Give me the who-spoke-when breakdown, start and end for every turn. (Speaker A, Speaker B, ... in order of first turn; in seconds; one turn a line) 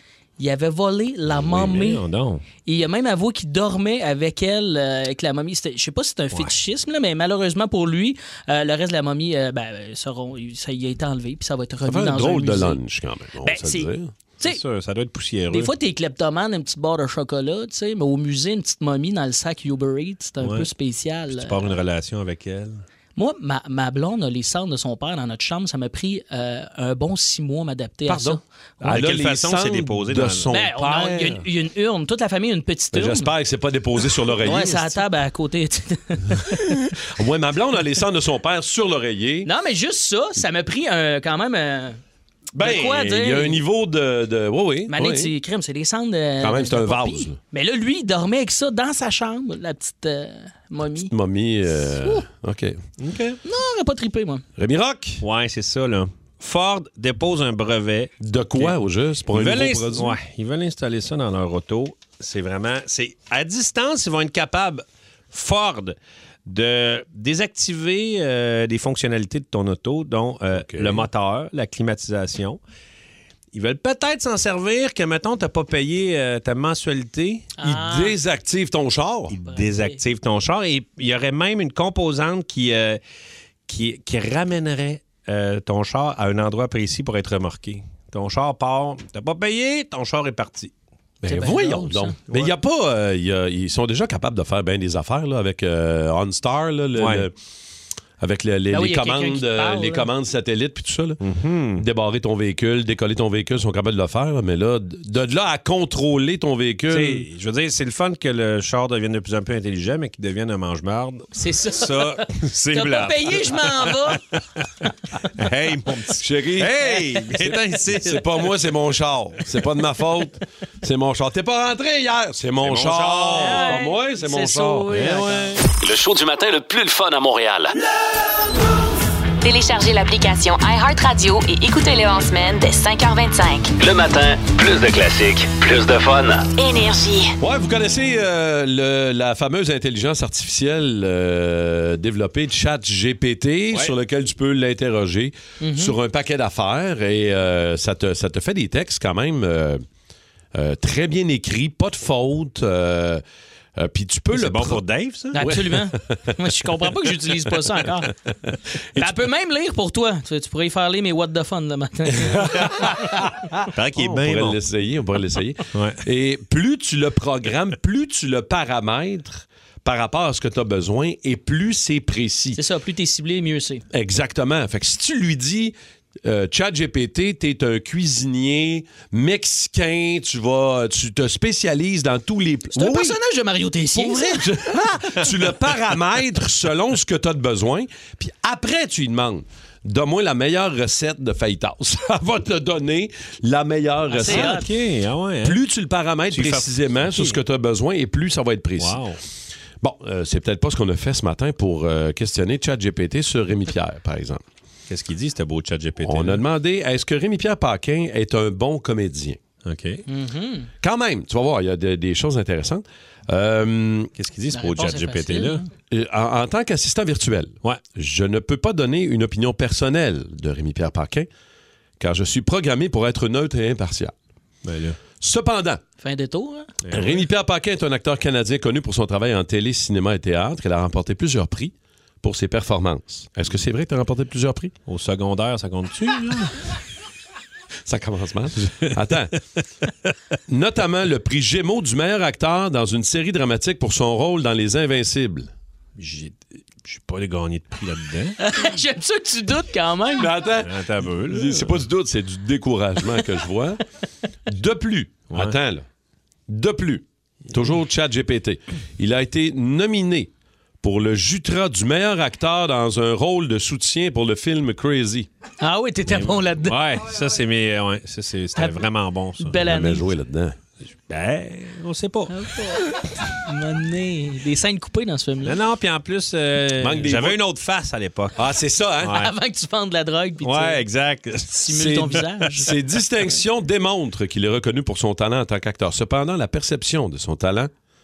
Speaker A: 0.4-2.0
Speaker B: 1.4-2.4
Speaker C: 1.4-1.8
Speaker A: 2.6-12.8
Speaker C: 11.8-14.1
Speaker A: 13.4-14.6
Speaker B: 14.4-15.7
Speaker A: 15.5-21.7
Speaker B: 20.4-20.7
Speaker B: 21.3-22.8
Speaker A: 23.1-28.4
Speaker C: 28.1-31.4
Speaker B: 28.8-30.5
Speaker A: 30.5-33.3
Speaker C: 32.9-35.0
Speaker A: 34.4-36.6
Speaker C: 37.0-39.5
Speaker A: 39.4-42.0
Speaker C: 42.5-45.3
Speaker A: 42.6-43.6
Speaker A: 44.9-51.1
Speaker C: 46.4-47.4
Speaker C: 51.0-52.8
Speaker B: 53.0-53.4
Speaker A: 53.4-54.4
Speaker C: 54.6-55.2
Speaker B: 55.2-58.8
Speaker C: 58.2-60.1
Speaker B: 59.3-66.0
Speaker B: 66.5-72.6
Speaker C: 70.5-71.1
Speaker B: 73.5-77.5
Speaker A: 77.6-78.2
Speaker C: 77.6-79.3
Speaker B: 79.3-83.0
Speaker A: 79.4-80.0
Speaker B: 83.7-90.7
Speaker C: 91.2-97.3
Speaker A: 91.2-92.2
Speaker B: 92.3-92.5
Speaker B: 97.0-97.3
Speaker C: 98.2-101.2
Speaker A: 98.7-100.1
Speaker B: 101.2-101.8
Speaker C: 101.8-107.3
Speaker B: 106.9-114.1
Speaker A: 111.3-114.2
Speaker B: 115.4-118.5
Speaker C: 116.2-116.8
Speaker C: 117.4-124.9
Speaker B: 122.6-123.8
Speaker A: 123.3-125.5
Speaker B: 124.9-125.6
Speaker D: 125.8-127.7
Speaker E: 129.4-133.7
Speaker D: 133.8-136.5
Speaker E: 136.6-137.3
Speaker C: 137.4-149.8
Speaker A: 145.6-145.9
Speaker C: 150.5-153.2
Speaker C: 153.8-154.8
Speaker B: 154.3-155.4
Speaker C: 155.3-156.4
Speaker A: 155.3-158.1
Speaker C: 158.5-159.1
Speaker A: 158.9-162.9
Speaker C: 162.2-163.2
Speaker B: 163.7-164.6
Speaker C: 163.9-172.6
Speaker B: 165.7-166.0
Speaker A: 172.6-173.8
Speaker C: 173.9-183.2
Speaker A: 182.8-184.5
Speaker C: 183.9-194.6
Speaker A: 194.1-194.7
Speaker B: 194.2-195.6
Speaker C: 195.4-199.0
Speaker B: 196.3-197.4
Speaker B: 198.8-199.2
Speaker C: 199.8-204.4
Speaker B: 204.9-206.4
Speaker C: 206.0-209.4
Speaker B: 209.6-210.0
Speaker A: 210.1-210.7
Speaker C: 210.8-214.1
Speaker B: 214.2-215.6
Speaker A: 214.5-215.7
Speaker C: 215.9-221.3
Speaker C: 222.0-224.1
Speaker B: 224.6-225.0
Speaker C: 225.2-225.8
Speaker A: 226.0-226.7
Speaker B: 226.8-227.2
Speaker C: 226.9-234.7
Speaker B: 234.9-236.7
Speaker C: 237.8-239.3
Speaker C: 240.5-245.5
Speaker B: 246.0-248.4
Speaker A: 248.4-250.3
Speaker C: 250.2-253.8
Speaker B: 250.6-251.8
Speaker C: 254.5-255.8
Speaker B: 255.3-255.6
Speaker C: 256.5-260.3
Speaker C: 260.8-265.3
Speaker A: 265.6-266.8
Speaker B: 266.1-269.6
Speaker A: 268.6-268.9
Speaker A: 269.4-270.1
Speaker C: 269.6-270.6
Speaker B: 271.1-272.5
Speaker A: 272.3-275.6
Speaker B: 275.4-278.4
Speaker C: 276.8-277.4
Speaker C: 278.4-279.2
Speaker B: 279.0-279.3
Speaker A: 279.1-280.8
Speaker B: 280.4-281.9
Speaker A: 281.5-282.7
Speaker C: 281.7-287.7